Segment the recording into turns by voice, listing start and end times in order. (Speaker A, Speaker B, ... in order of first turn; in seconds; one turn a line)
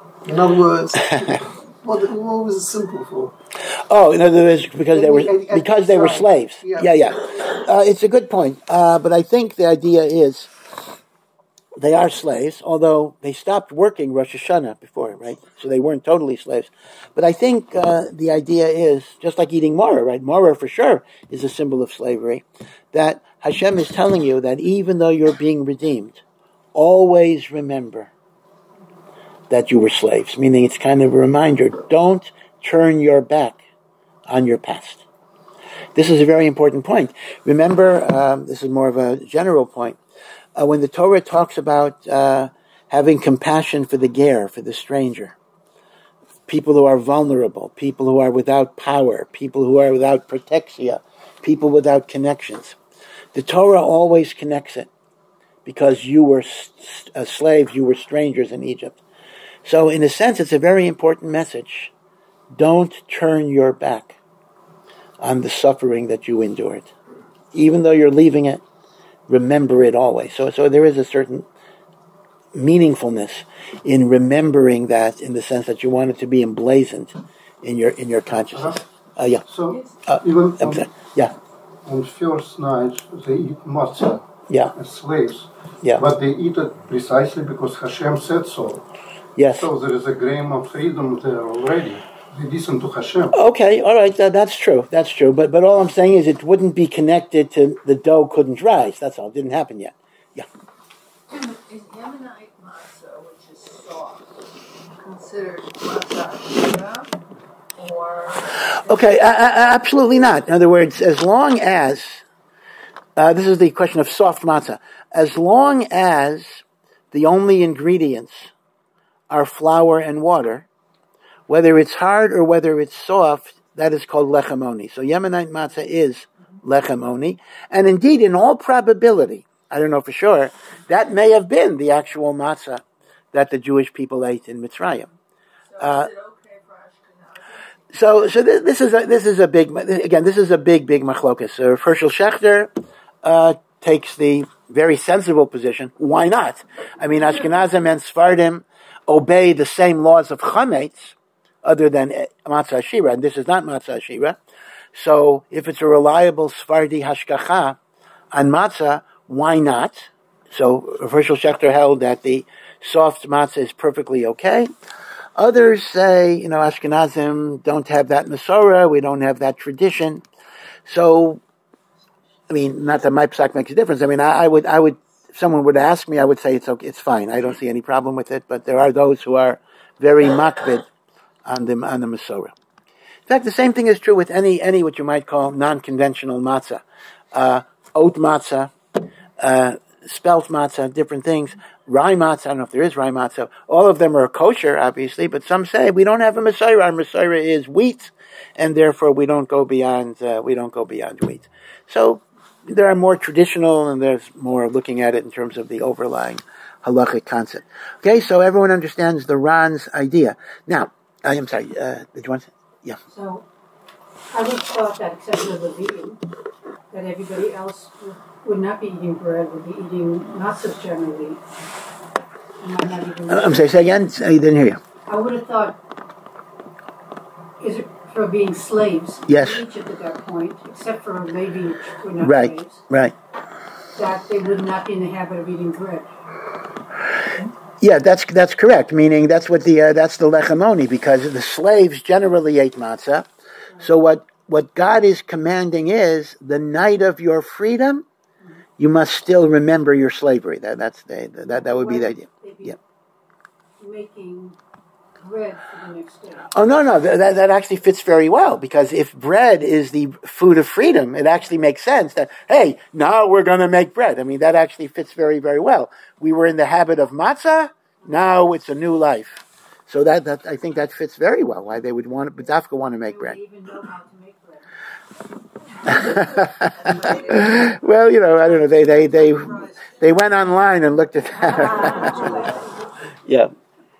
Speaker A: 0.2-3.3
Speaker B: 3.9-10.5
Speaker A: 4.9-7.0
Speaker B: 11.8-26.2
Speaker B: 26.8-28.1
Speaker B: 29.5-33.6
Speaker B: 34.3-35.0
Speaker B: 36.0-40.0
Speaker B: 40.6-45.4
Speaker B: 46.5-52.8
Speaker B: 53.3-54.9
Speaker B: 55.6-59.0
Speaker B: 59.6-61.9
Speaker B: 62.5-64.2
Speaker B: 65.2-66.9
Speaker B: 67.5-68.6
Speaker B: 69.3-71.5
Speaker B: 72.5-79.4
Speaker C: 79.5-80.9
Speaker B: 80.0-81.3
Speaker C: 81.8-84.2
Speaker C: 84.8-88.8
Speaker B: 89.4-89.7
Speaker C: 89.6-93.3
Speaker B: 93.3-100.5
Speaker D: 101.3-104.3
Speaker D: 105.0-107.1
Speaker D: 107.8-109.2
Speaker B: 108.8-112.2
Speaker B: 113.2-118.5
Speaker B: 119.3-120.7
Speaker B: 121.5-135.1
Speaker D: 135.7-137.8
Speaker B: 135.8-136.1
Speaker B: 137.9-142.7
Speaker B: 143.2-154.4
Speaker B: 154.9-157.8
Speaker B: 158.3-164.7
Speaker B: 165.4-170.2
Speaker B: 170.9-171.4
Speaker B: 172.5-180.9
Speaker B: 181.5-182.5
Speaker B: 183.3-186.8
Speaker B: 187.3-188.7
Speaker B: 189.4-213.0
Speaker E: 213.1-213.4
Speaker E: 214.3-216.2
Speaker E: 216.9-221.4
Speaker E: 222.6-223.7
Speaker B: 223.3-224.8
Speaker E: 225.1-225.8
Speaker E: 227.6-232.8
Speaker B: 229.3-229.6
Speaker B: 232.2-233.1
Speaker E: 233.9-236.1
Speaker B: 237.8-243.3
Speaker B: 243.8-248.1
Speaker B: 248.8-252.8
Speaker E: 251.5-252.8
Speaker E: 253.8-254.6
Speaker E: 255.2-256.5
Speaker B: 256.5-273.4
Speaker E: 273.1-274.6
Speaker B: 275.9-282.4
Speaker D: 276.9-277.2
Speaker E: 276.9-277.4
Speaker E: 281.6-282.6
Speaker B: 283.3-283.5